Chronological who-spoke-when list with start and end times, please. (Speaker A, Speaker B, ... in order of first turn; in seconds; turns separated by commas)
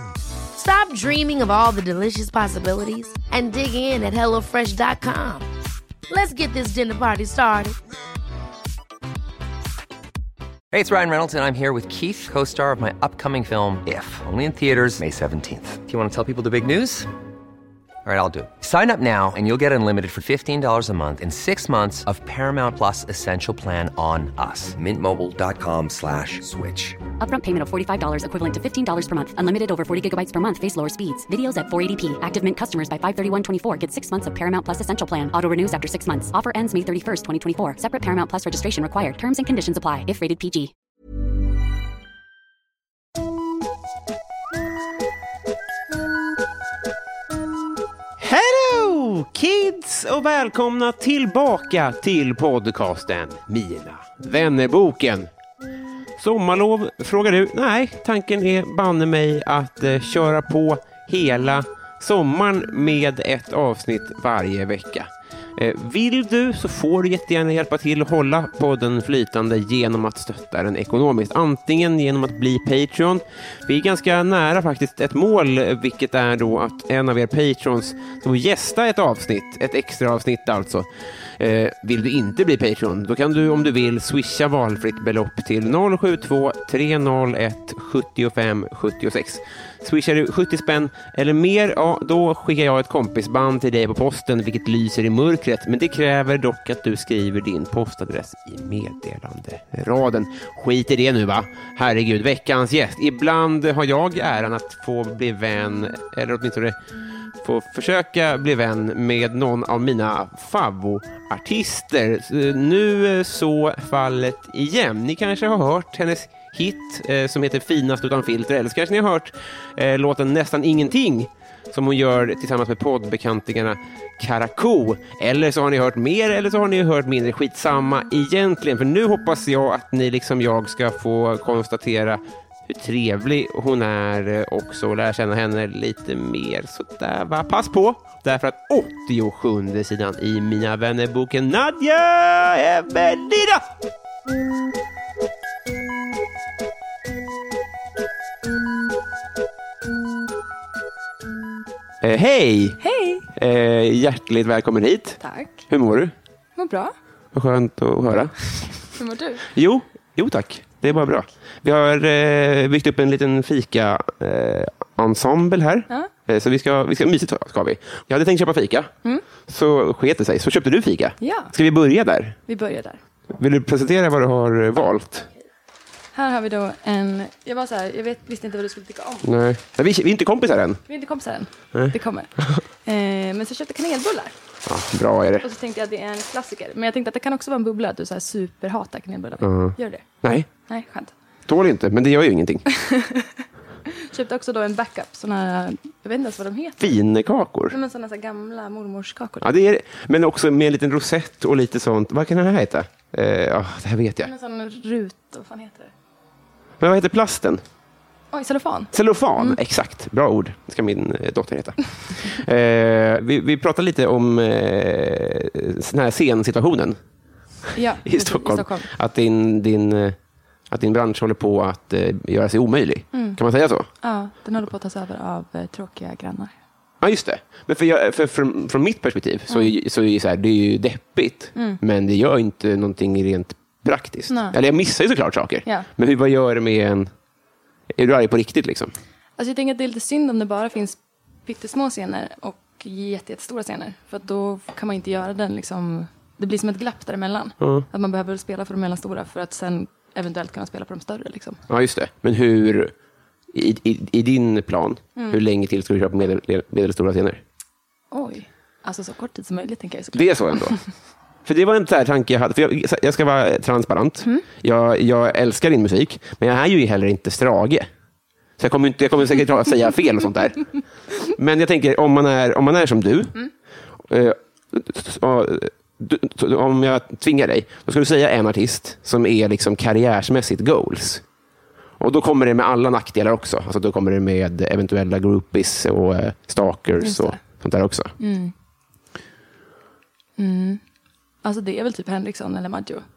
Speaker A: 0.5-5.5, Speaker A: 6.1-7.8, Speaker B: 10.7-17.1, Speaker B: 18.0-27.0, Speaker C: 27.2-40.7, Speaker D: 48.2-55.3, Speaker D: 56.2-80.9, Speaker D: 81.4-106.8, Speaker D: 107.4-143.6, Speaker D: 152.0-152.8, Speaker E: 152.8-153.3, Speaker D: 153.3-155.2, Speaker E: 155.2-155.6, Speaker D: 155.7-156.1, Speaker E: 156.6-156.9, Speaker D: 157.3-158.3, Speaker E: 158.9-159.5, Speaker D: 159.5-168.9, Speaker D: 169.5-172.4, Speaker E: 171.2-171.5, Speaker E: 172.5-173.0, Speaker D: 173.3-175.3, Speaker E: 176.1-179.3, Speaker D: 179.2-180.8, Speaker E: 180.9-182.3, Speaker D: 181.7-182.6, Speaker E: 182.8-184.3, Speaker D: 184.7-185.4, Speaker E: 185.4-190.0, Speaker D: 189.4-190.5, Speaker E: 190.7-191.1, Speaker D: 191.5-192.7, Speaker E: 192.7-197.0, Speaker D: 196.8-197.8, Speaker E: 197.7-199.5, Speaker D: 199.4-204.3, Speaker E: 204.2-205.9, Speaker D: 206.8-207.6, Speaker E: 208.3-209.6, Speaker D: 208.9-217.0, Speaker E: 217.7-218.9, Speaker D: 218.0-220.2, Speaker D: 220.7-223.9, Speaker E: 223.1-223.4, Speaker E: 224.0-226.5, Speaker D: 227.0-237.1, Speaker E: 229.5-229.7, Speaker E: 231.5-231.8, Speaker E: 234.3-234.6, Speaker D: 237.9-238.9, Speaker E: 239.4-251.6, Speaker D: 247.6-247.8, Speaker D: 251.7-252.9, Speaker D: 253.5-257.4, Speaker E: 255.2-255.4, Speaker E: 258.1-260.8, Speaker D: 260.1-260.8, Speaker D: 261.4-267.9, Speaker D: 268.6-270.6, Speaker D: 271.3-273.4, Speaker D: 274.1-281.2, Speaker D: 282.0-288.1, Speaker E: 287.0-287.4, Speaker E: 288.2-288.5, Speaker E: 290.4-290.8, Speaker E: 291.4-293.0